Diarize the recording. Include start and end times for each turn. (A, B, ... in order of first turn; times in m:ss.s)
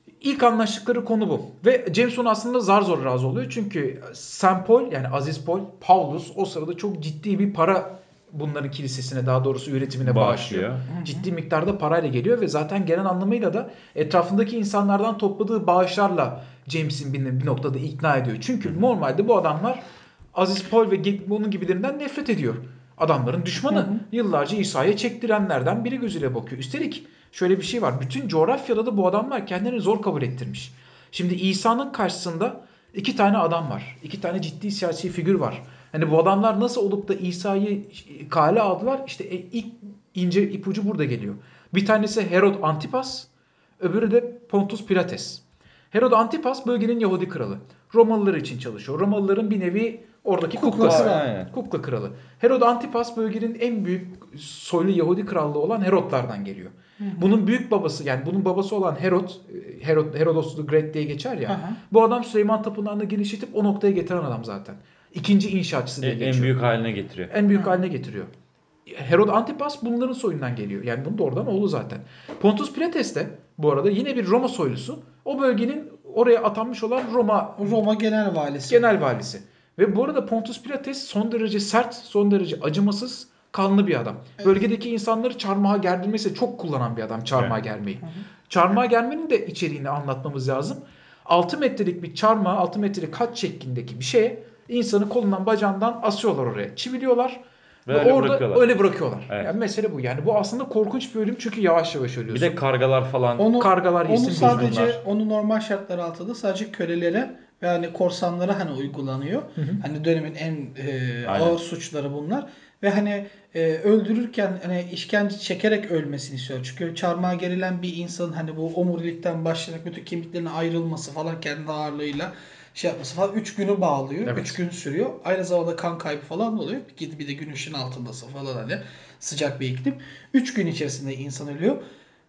0:00.2-0:19.8 A
0:10.0-0:10.8 B
0:10.9-0:11.2 C
0:20.4-0:43.3 A
0:23.7-0:24.0 C
0:43.8-1:06.6 A
0:50.5-0:51.3 C
0:50.8-0:51.5 B
0:57.0-0:57.2 C
1:01.5-1:01.8 C
1:06.0-1:07.3 B
1:07.3-1:08.3 A
1:08.9-1:17.8 A
1:17.6-1:18.9 C
1:18.7-1:42.6 A
1:37.9-1:38.7 B
1:42.3-1:43.6 B
1:43.4-2:11.8 C
1:43.6-1:44.8 A
1:44.3-1:45.0 B
1:51.3-1:51.6 B
2:04.2-2:04.6 A